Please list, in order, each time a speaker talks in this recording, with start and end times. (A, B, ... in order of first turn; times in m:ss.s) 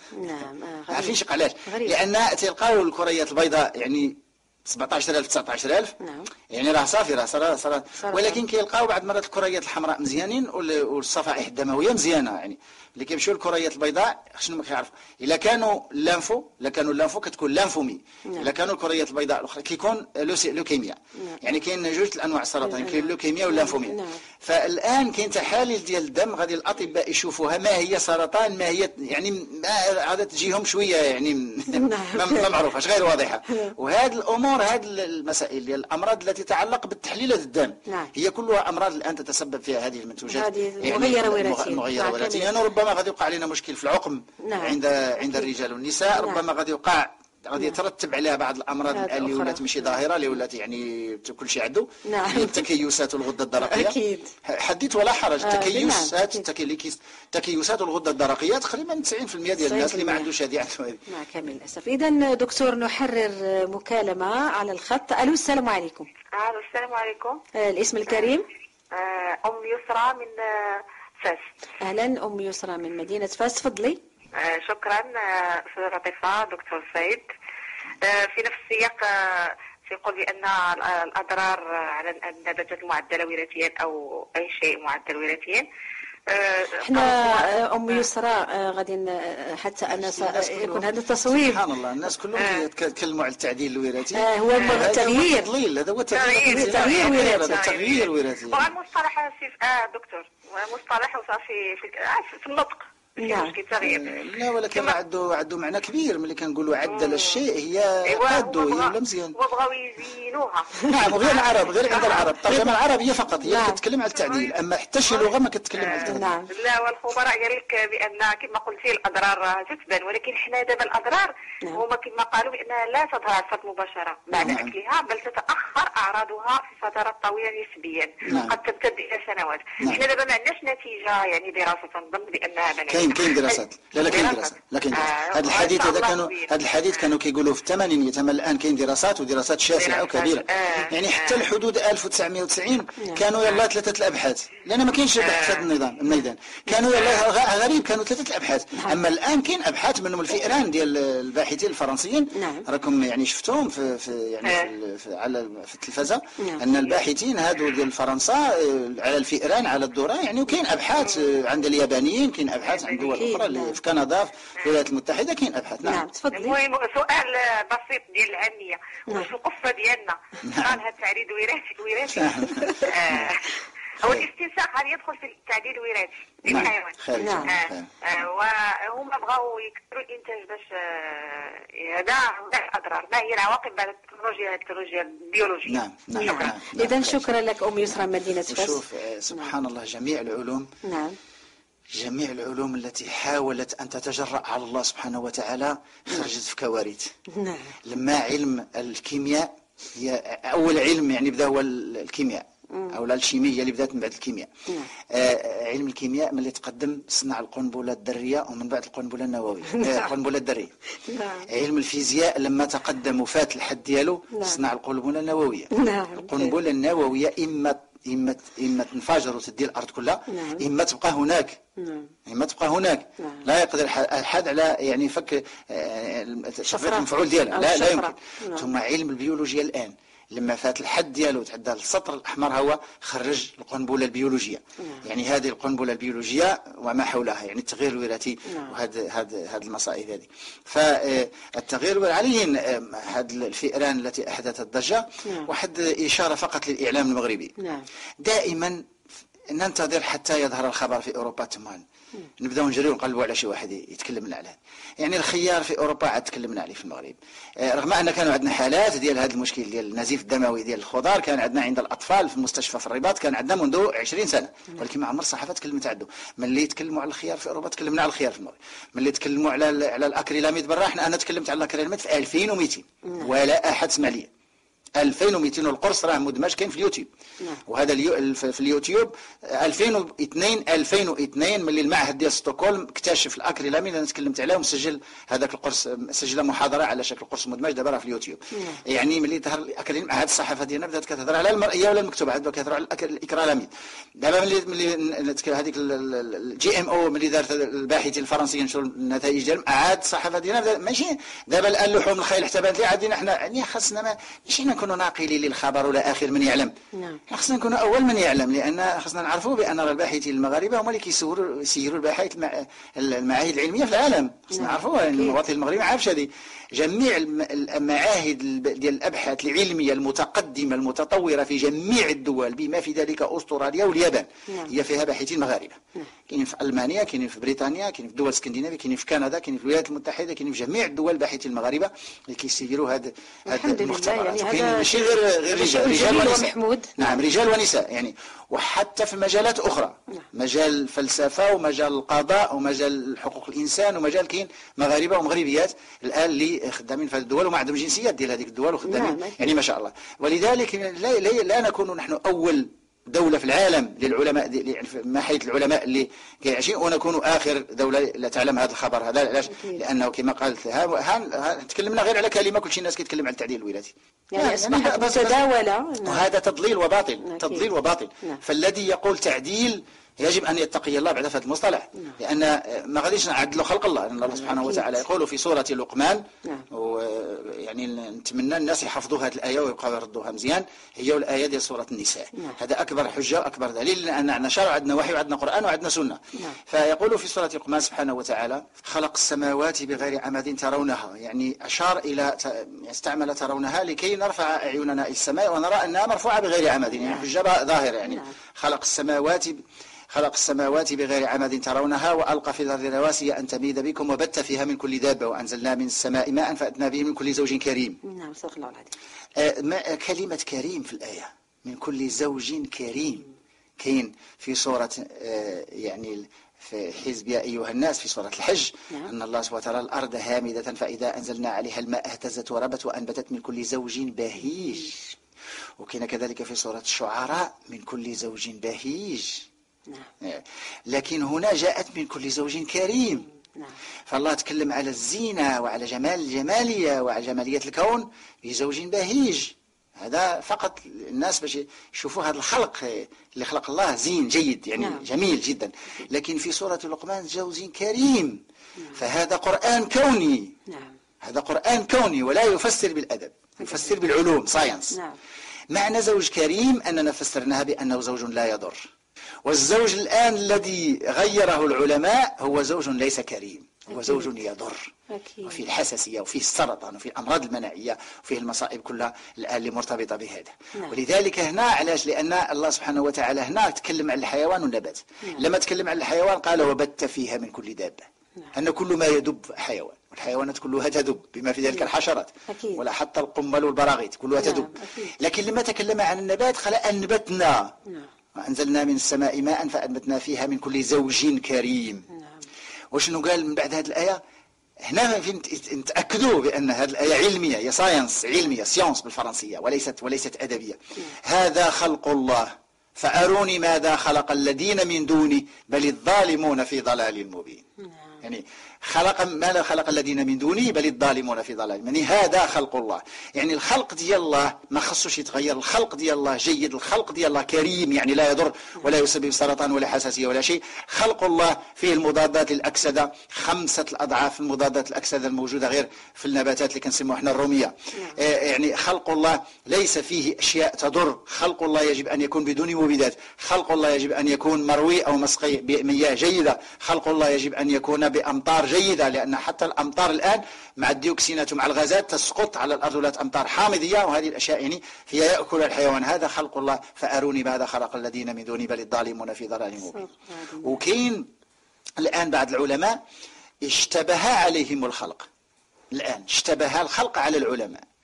0:00.2-0:02.0 A
0:00.9-0:06.0 B
0:06.0-0:06.3 A
0:06.5-1:01.0 B
0:08.0-0:08.4 A
0:22.6-0:24.2 A
0:31.7-0:32.5 A
0:37.9-0:38.1 A
0:40.3-0:42.5 A
0:44.4-0:45.5 A
0:46.2-0:46.4 A
0:48.9-0:49.9 A
0:52.0-0:52.6 A
0:53.6-0:54.3 A
0:55.4-0:56.4 A
0:59.6-1:00.3 A
1:01.1-1:06.1 A
1:06.3-1:07.4 C
1:07.5-1:08.5 A
1:08.9-1:11.4 C
1:11.8-1:14.0 A
1:14.3-1:17.2 C
1:18.0-1:25.6 C
1:26.3-1:28.0 C
1:26.8-1:31.6 A
1:29.9-1:38.7 B
1:32.4-1:32.6 C
1:34.1-1:35.5 A
1:34.6-1:35.1 C
1:36.1-1:44.9 C
1:36.4-1:37.6 A
1:43.2-1:43.6 A
1:43.8-1:49.4 B
1:46.9-1:47.4 C
1:48.0-1:52.6 C
1:50.9-1:56.3 B
1:53.5-1:53.8 A
1:54.1-1:54.5 C
1:55.1-2:16.5 C
1:56.0-1:56.5 A
2:04.4-2:04.7 B
2:08.3-2:08.5 B
2:12.9-2:46.0 B
2:19.8-2:21.4 C
2:25.2-2:25.7 C
2:26.9-2:27.2 C
2:32.3-2:32.6 A
2:34.4-2:34.7 C
2:41.1-2:41.3 C
2:42.8-2:43.1 C
2:43.0-2:43.8 A
2:45.8-2:46.6 A
2:46.3-3:06.5 C
2:50.4-2:50.8 B
2:52.1-2:53.3 B
2:54.0-2:54.3 B
2:56.5-2:57.9 B
2:57.2-2:57.5 A
3:05.6-3:07.3 B
3:06.1-3:09.5 A
3:07.8-3:10.7 B
3:10.8-3:11.2 A
3:11.9-3:17.1 B
3:17.3-3:17.7 A
3:17.8-3:24.5 B
3:25.1-3:30.7 B
3:29.7-3:30.0 A
3:31.0-3:31.5 A
3:31.5-3:41.6 B
3:34.3-3:34.6 A
3:35.7-3:36.6 A
3:40.3-3:40.6 A
3:41.8-3:42.1 A
3:42.3-4:07.5 B
3:43.2-3:43.4 A
3:46.7-3:48.6 A
3:54.8-3:55.0 A
3:58.5-3:58.7 A
4:05.2-4:05.5 A
4:07.6-4:07.8 A
4:08.2-4:08.9 B
4:09.5-4:11.8 B
4:12.4-4:34.3 B
4:35.0-4:37.1 B
4:37.6-5:06.7 B
4:48.5-4:48.8 A
5:06.9-5:07.2 A
5:07.3-6:05.4 B
5:14.5-5:15.4 A
5:33.5-5:37.2 A
5:48.8-5:49.5 A
5:59.5-5:59.8 A
6:04.3-6:06.2 A
6:06.0-6:39.6 B
6:07.2-6:07.6 A
6:14.4-6:14.9 A
6:37.0-6:37.2 A
6:38.0-6:38.3 A
6:40.1-6:48.0 B
6:48.0-6:48.9 A
6:49.4-6:53.3 B
6:53.8-7:05.0 B
7:05.8-7:09.4 B
7:10.2-7:13.3 B
7:14.1-7:28.4 B
7:24.8-7:25.0 A
7:28.9-7:30.6 B
7:30.7-7:30.9 A
7:31.2-7:35.0 B
7:34.9-7:35.2 A
7:35.7-7:38.9 B
7:39.4-7:44.9 B
7:43.9-7:44.3 A
7:45.1-7:45.6 A
7:45.4-8:07.7 B
8:02.5-8:02.8 A
8:04.4-8:05.1 A
8:08.3-8:12.0 B
8:12.1-8:12.4 A
8:12.9-8:14.2 B
8:14.8-8:27.6 B
8:28.2-9:10.1 B
9:09.9-9:10.8 A
9:10.6-9:11.2 B
9:12.0-9:13.0 B
9:13.6-9:15.3 B
9:15.9-9:17.8 B